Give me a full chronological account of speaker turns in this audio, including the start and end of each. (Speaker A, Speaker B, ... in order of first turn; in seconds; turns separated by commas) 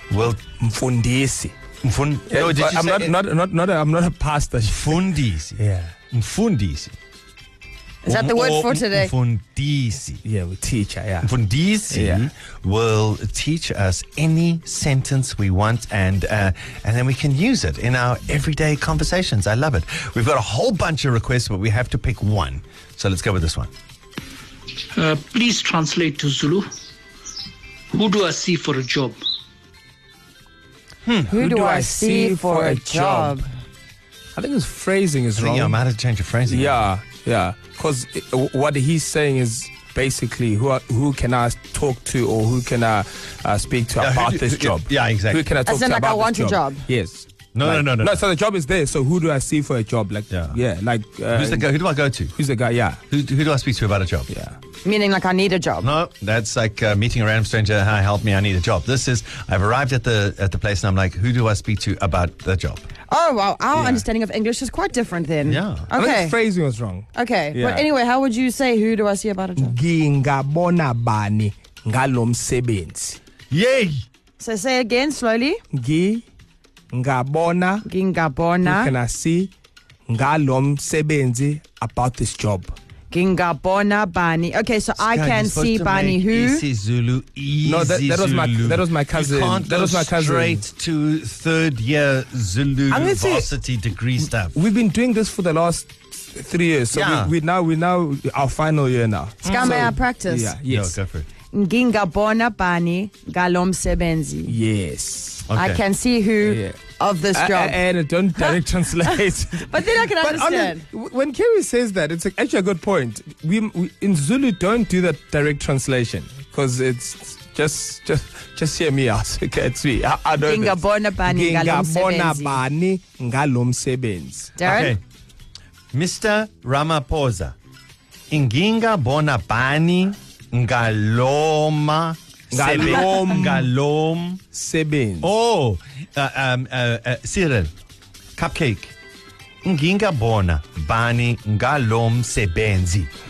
Speaker A: 0.1-0.4, Speaker B: 0.6-1.5, Speaker A: 1.8-3.1, Speaker B: 2.3-5.9, Speaker A: 4.7-5.6, Speaker A: 6.1-6.9, Speaker C: 8.0-9.1, Speaker A: 8.0-10.2, Speaker B: 10.2-11.3, Speaker A: 11.2-23.7, Speaker B: 11.9-12.3, Speaker D: 24.9-26.7, Speaker D: 27.9-29.2, Speaker B: 31.3-33.4, Speaker C: 31.3-33.5, Speaker B: 34.3-35.8, Speaker A: 35.4-36.8, Speaker B: 36.5-51.7, Speaker A: 44.0-45.5, Speaker C: 45.6-46.8, Speaker A: 47.5-48.2, Speaker A: 50.3-50.5, Speaker A: 51.3-52.3, Speaker B: 52.3-53.0, Speaker A: 53.1-54.3, Speaker B: 54.3-54.6, Speaker C: 54.8-55.9, Speaker A: 55.8-62.8, Speaker C: 63.1-66.3, Speaker B: 63.7-64.0, Speaker A: 65.4-65.9, Speaker B: 65.9-67.9, Speaker C: 67.1-69.7, Speaker B: 69.6-73.2, Speaker A: 73.5-74.0, Speaker C: 74.4-75.6, Speaker B: 75.7-76.2, Speaker B: 76.9-77.8, Speaker C: 77.8-78.9, Speaker B: 78.6-79.5, Speaker B: 80.1-82.7, Speaker C: 83.1-86.6, Speaker A: 85.0-94.6, Speaker B: 87.6-90.6, Speaker B: 92.9-93.5, Speaker B: 94.2-101.0, Speaker A: 96.9-97.3, Speaker A: 99.4-99.9, Speaker C: 99.4-100.5, Speaker A: 100.7-101.3, Speaker C: 101.5-104.5, Speaker B: 104.5-105.5, Speaker A: 105.5-105.8, Speaker C: 105.5-107.8, Speaker B: 106.4-106.8, Speaker B: 107.3-124.8, Speaker C: 109.1-110.8, Speaker C: 120.4-122.6, Speaker C: 124.6-125.0, Speaker A: 124.6-125.0, Speaker A: 125.9-127.5, Speaker A: 128.3-134.4, Speaker B: 132.5-133.7, Speaker B: 134.5-135.3, Speaker A: 135.2-137.7, Speaker A: 138.3-138.9, Speaker A: 139.6-143.1